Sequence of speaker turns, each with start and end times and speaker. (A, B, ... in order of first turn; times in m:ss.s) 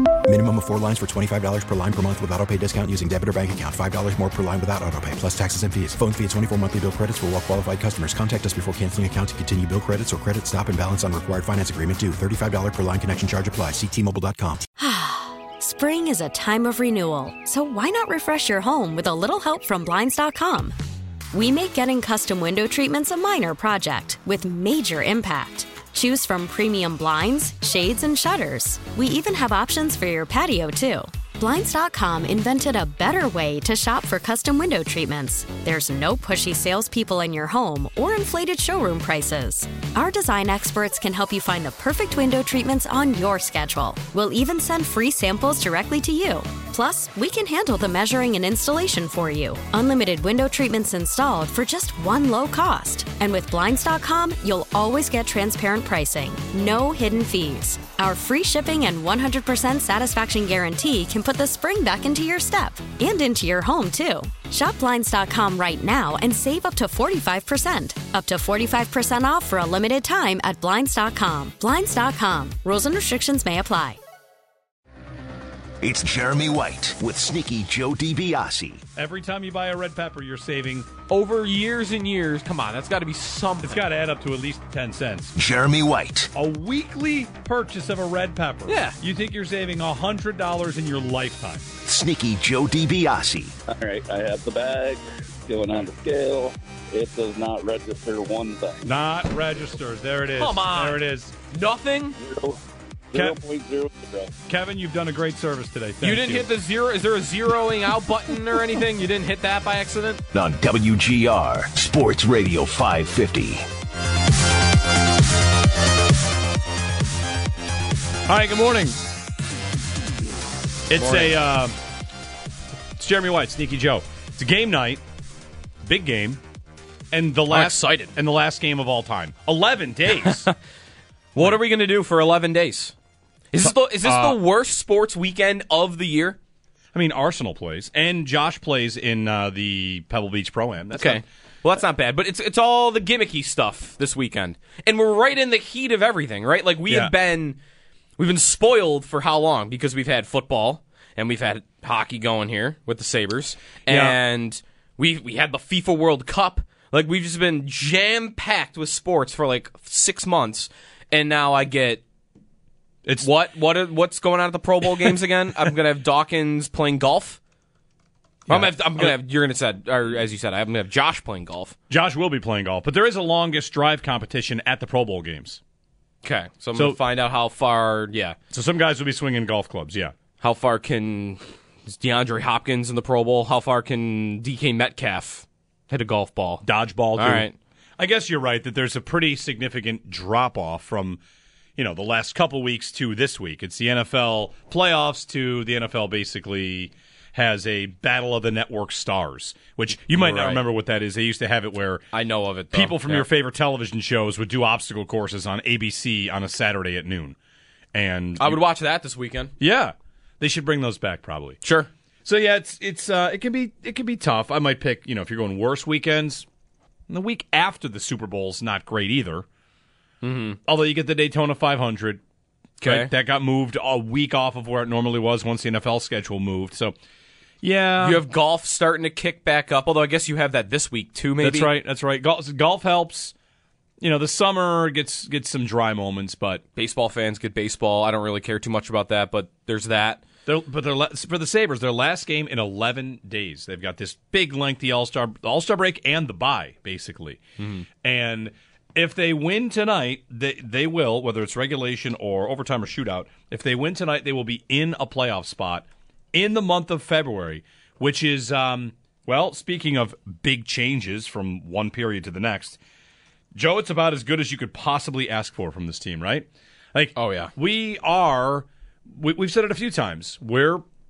0:00.2-0:14.6 A
0:14.8-0:20.7 B
0:21.3-1:14.0 B
1:15.8-1:18.8 C
1:19.0-1:20.9 D
1:21.1-1:23.8 E
1:23.6-1:25.3 D
1:25.4-1:26.3 C
1:26.3-1:31.6 D
1:28.7-1:29.0 E
1:31.8-1:33.5 C
1:33.7-1:38.9 F
1:38.8-1:41.3 D
1:40.4-1:41.0 E
1:41.5-1:42.2 E
1:42.2-1:42.6 F
1:43.1-1:44.3 F
1:44.5-1:46.4 D
1:46.0-1:50.2 E
1:50.3-1:53.6 C
1:58.3-1:59.0 D
2:00.9-2:01.7 D
2:01.0-2:01.3 E
2:03.0-2:05.0 D
2:05.8-2:06.4 D
2:07.1-2:10.5 D
2:07.5-2:08.1 E
2:11.3-2:12.9 E
2:13.5-2:16.4 E
2:13.6-2:14.4 D
2:16.9-2:21.2 D
2:20.9-2:27.6 E
2:26.9-2:27.1 D
2:28.2-2:42.0 E
2:33.9-2:34.2 D
2:43.2-2:47.4 E
2:48.5-2:49.2 D
2:48.5-2:51.7 E
2:51.9-2:55.6 D
2:56.2-2:58.4 E
2:58.5-3:00.1 D
3:00.4-3:06.6 E
3:06.6-3:07.4 D
3:07.2-3:07.5 E
3:08.0-3:11.2 D
3:11.8-3:22.0 D
3:20.1-3:20.6 E
3:22.1-3:23.3 E
3:22.7-3:27.4 D
3:27.9-3:28.6 D
3:28.4-3:29.5 E
3:29.6-3:31.6 D
3:31.6-3:31.9 E
3:32.2-3:36.4 D
3:37.1-3:39.4 D
3:40.2-3:40.6 E
3:40.6-3:42.2 D
3:42.8-3:43.1 E
3:42.8-3:46.9 D
3:47.6-3:48.2 D
3:48.0-3:51.7 E
3:51.4-3:53.3 D
3:54.0-3:56.6 D
3:56.7-4:00.2 E
4:00.4-4:07.4 D
4:07.6-4:07.8 E
4:08.0-4:22.8 D
4:23.5-4:30.8 D
4:27.2-4:27.5 E